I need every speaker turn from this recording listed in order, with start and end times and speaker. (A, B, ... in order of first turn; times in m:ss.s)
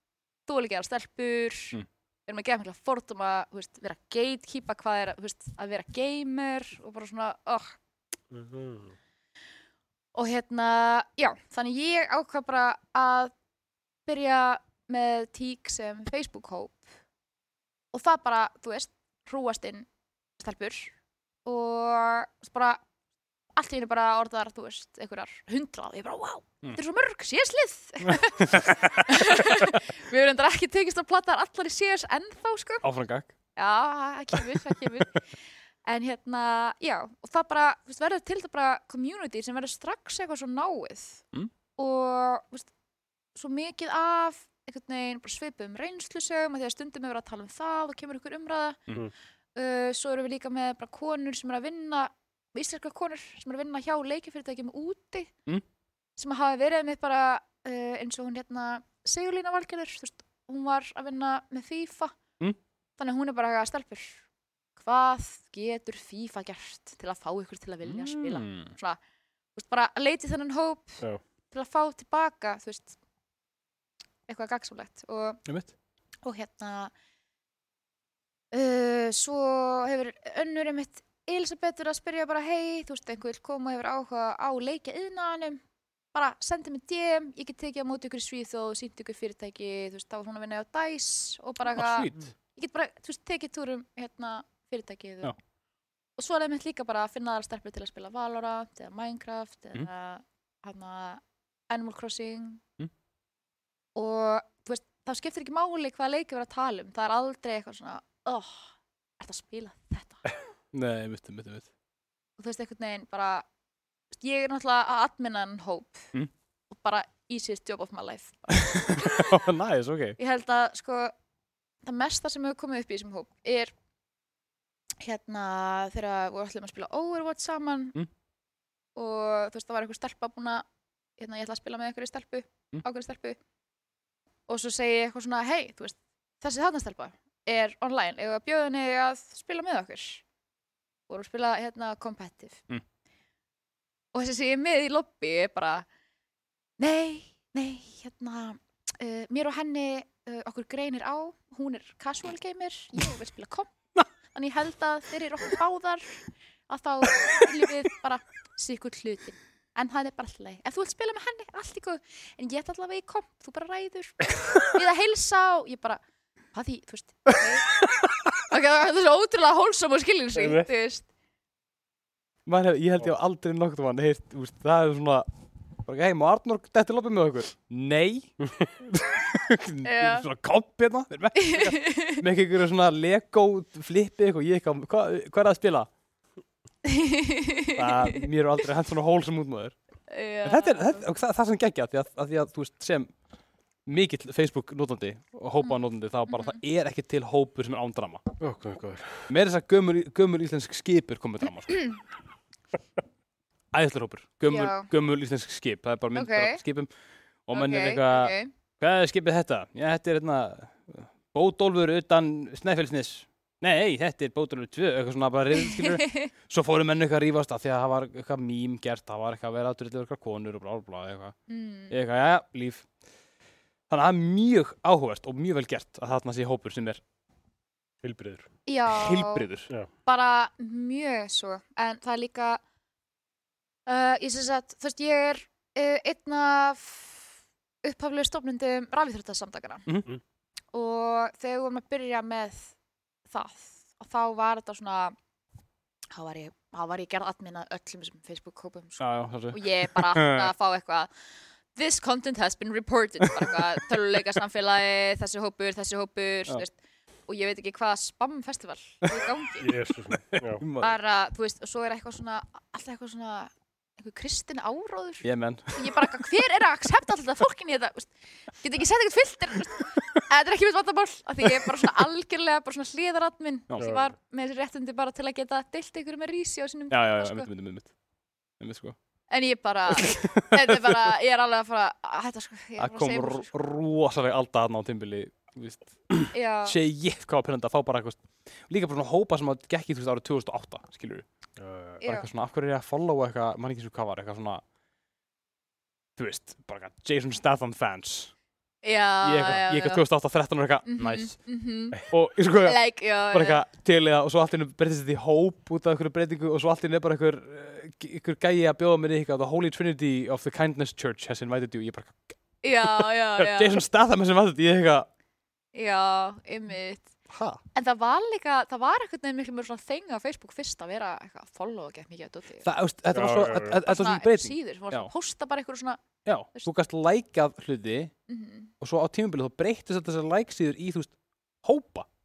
0:00.5-0:07.8 A
0:08.3-0:09.0 B
0:10.1-0:13.3 A
0:14.1-0:16.8 A
0:17.9-0:19.9 A
0:20.4-0:20.9 A
0:21.4-0:22.8 A
0:23.6-0:32.9 A
0:28.0-0:29.7 C
0:32.8-0:33.3 C
0:33.6-0:35.3 A
0:35.8-0:41.2 A
0:41.8-0:42.7 A
0:43.4-0:48.8 A
0:49.6-0:55.3 A
0:56.2-1:02.2 A
1:03.0-1:04.2 A
1:04.8-1:09.0 A
1:07.8-1:08.7 C
1:09.6-1:13.0 A
1:14.3-1:15.4 A
1:15.4-1:15.7 C
1:16.2-1:16.9 A
1:18.5-1:25.6 A
1:26.1-1:35.4 A
1:31.7-1:32.3 C
1:36.2-1:42.7 A
1:44.0-1:50.3 A
1:50.7-1:51.7 C
1:52.4-1:53.4 A
1:54.2-1:56.1 A
1:56.7-1:59.3 A
1:59.1-2:00.2 C
2:00.2-2:01.1 A
2:01.8-2:03.7 A
2:05.0-2:08.0 A
2:09.0-2:10.6 A
2:11.2-2:13.4 A
2:14.5-2:20.2 A
2:21.1-2:22.7 A
2:24.1-2:25.9 A
2:26.8-2:33.7 A
2:34.3-2:46.0 A
2:37.2-2:37.7 C
2:46.5-2:47.7 A
2:48.4-2:51.1 A
2:50.4-2:50.7 B
2:52.5-2:55.3 C
2:55.8-3:05.9 C
2:59.8-3:00.3 A
3:01.4-3:02.2 A
3:06.8-3:08.3 A
3:07.8-3:09.8 C
3:10.1-3:11.0 A
3:10.4-3:13.2 C
3:13.9-3:18.2 C
3:15.6-3:16.6 A
3:18.4-3:19.3 B
3:19.3-3:22.0 C
3:23.7-3:26.9 C
3:24.5-3:24.9 A
3:26.1-3:26.6 A
3:27.5-3:41.4 C
3:27.5-3:28.5 A
3:35.7-3:36.3 A
3:41.5-3:42.0 A
3:41.9-3:42.9 C
3:43.9-3:47.0 C
3:48.0-3:48.5 B
3:48.7-3:49.5 A
3:48.9-3:49.7 C
3:50.0-3:52.6 A
3:53.9-3:57.3 A
3:57.8-3:59.9 A
4:00.7-4:02.8 A
4:03.3-4:05.2 A
4:06.1-4:11.1 A
4:09.0-4:10.5 C
4:11.7-4:19.8 A
4:19.6-4:20.6 B
4:19.9-4:20.9 C
4:20.8-4:37.5 A
4:25.2-4:26.0 C
4:33.7-4:34.0 C
4:33.8-4:34.0 B
4:36.9-4:37.9 C
4:38.6-4:39.0 C
4:39.3-4:43.5 A
4:40.0-4:41.0 C
4:42.8-4:51.3 C
4:46.3-4:46.8 A
4:51.6-4:52.0 B
4:52.0-4:52.3 A
4:52.0-4:54.6 C
4:56.2-4:58.4 C
4:58.8-5:00.0 A
4:59.2-5:01.6 C
5:00.9-5:03.6 A
5:02.1-5:15.1 C
5:12.6-5:13.8 A
5:15.7-5:17.1 A
5:17.3-5:17.6 C
5:17.7-5:22.7 A
5:22.6-5:25.1 C
5:23.1-5:23.8 B
5:23.7-5:26.7 A
5:26.2-5:28.1 C
5:28.3-5:28.7 A
5:28.8-5:32.1 C